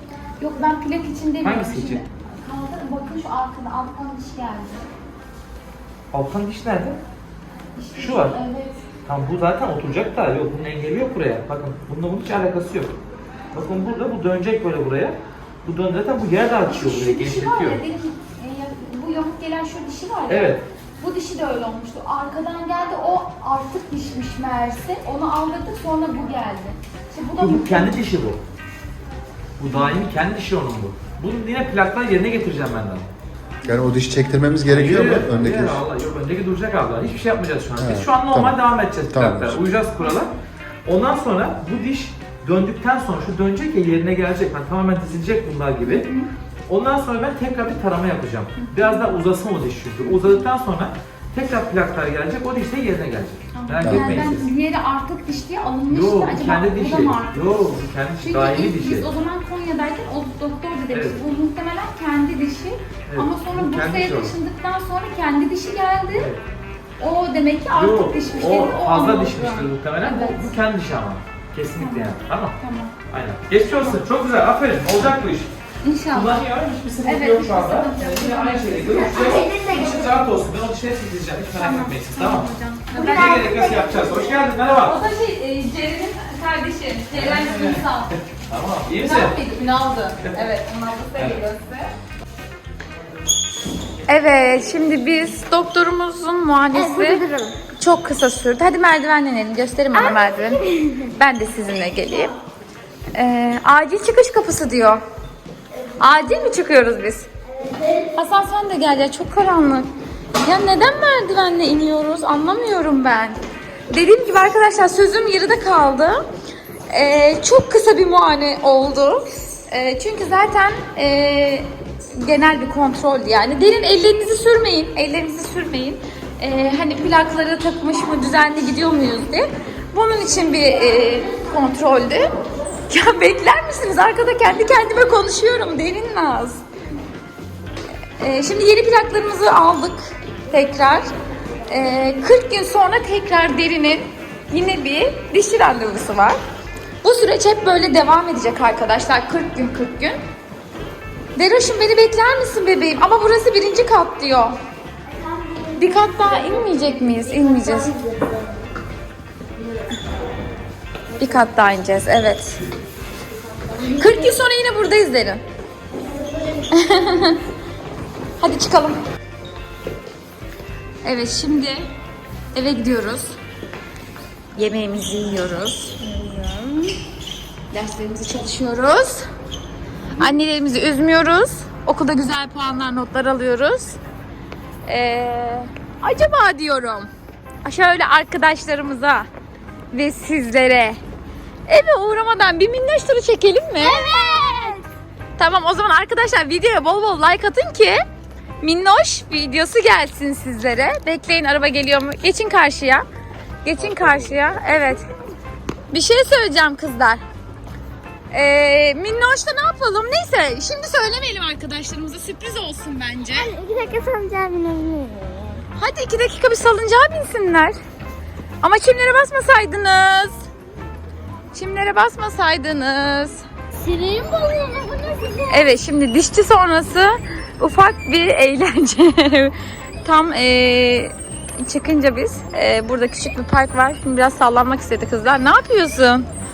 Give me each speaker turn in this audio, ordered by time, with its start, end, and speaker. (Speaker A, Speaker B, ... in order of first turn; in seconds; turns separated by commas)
Speaker A: 0.4-4.9, Speaker B: 1.4-2.0, Speaker B: 6.1-7.0, Speaker A: 7.7-8.8, Speaker B: 7.9-8.4, Speaker B: 9.1-12.9, Speaker B: 13.5-17.8, Speaker A: 16.6-28.0, Speaker B: 20.3-20.6, Speaker B: 27.4-28.4, Speaker B: 29.6-33.1, Speaker A: 29.7-30.0, Speaker A: 33.6-33.9, Speaker C: 33.6-35.8, Speaker B: 34.6-40.3, Speaker C: 37.8-38.6, Speaker C: 39.1-39.6, Speaker A: 40.0-40.3, Speaker B: 40.8-46.1, Speaker A: 45.8-46.3, Speaker B: 46.7-54.5, Speaker A: 48.5-49.1, Speaker A: 50.0-50.4, Speaker A: 53.5-66.3, Speaker C: 53.8-54.2, Speaker B: 55.9-59.1, Speaker B: 60.9-61.2, Speaker B: 63.1-64.3, Speaker B: 66.1-66.4, Speaker A: 67.0-70.5, Speaker B: 67.7-72.6, Speaker A: 71.8-73.0, Speaker B: 73.1-75.5, Speaker A: 75.8-76.4, Speaker B: 76.1-85.0, Speaker A: 77.0-79.4, Speaker D: 78.8-80.2, Speaker A: 81.5-83.5, Speaker D: 82.9-84.4, Speaker A: 84.8-88.1, Speaker B: 87.1-89.4, Speaker A: 89.0-91.9, Speaker B: 90.2-90.5, Speaker B: 91.2-91.4, Speaker A: 94.1-97.2, Speaker D: 96.7-97.6, Speaker A: 97.8-100.6, Speaker D: 99.9-101.1, Speaker A: 101.1-102.3, Speaker A: 103.1-105.0, Speaker A: 106.0-107.3, Speaker D: 107.5-108.1, Speaker A: 108.1-109.9, Speaker A: 110.4-113.4, Speaker A: 113.9-116.2, Speaker A: 116.9-132.2, Speaker A: 132.9-136.6, Speaker A: 138.2-141.1, Speaker A: 141.7-146.4, Speaker A: 147.0-150.2, Speaker A: 151.3-154.5, Speaker D: 155.1-158.7, Speaker A: 155.8-157.9, Speaker D: 159.6-159.9, Speaker A: 161.2-162.6, Speaker D: 163.6-164.3, Speaker A: 164.0-165.4, Speaker D: 166.0-167.0, Speaker A: 166.7-167.4, Speaker A: 168.4-169.0, Speaker A: 171.0-171.8, Speaker A: 172.5-173.3, Speaker A: 174.6-176.8, Speaker A: 177.7-179.2, Speaker A: 180.2-184.0, Speaker A: 184.9-187.1, Speaker A: 187.6-189.3, Speaker A: 189.9-191.0, Speaker A: 191.7-194.7, Speaker D: 193.8-194.8, Speaker A: 195.4-198.0, Speaker A: 198.6-203.0, Speaker A: 203.6-205.0, Speaker D: 204.3-205.2, Speaker A: 205.9-207.2, Speaker A: 208.3-213.5, Speaker D: 213.3-215.6, Speaker A: 215.8-217.7, Speaker A: 218.6-220.4, Speaker A: 221.5-223.4, Speaker D: 223.7-225.7, Speaker A: 225.5-236.2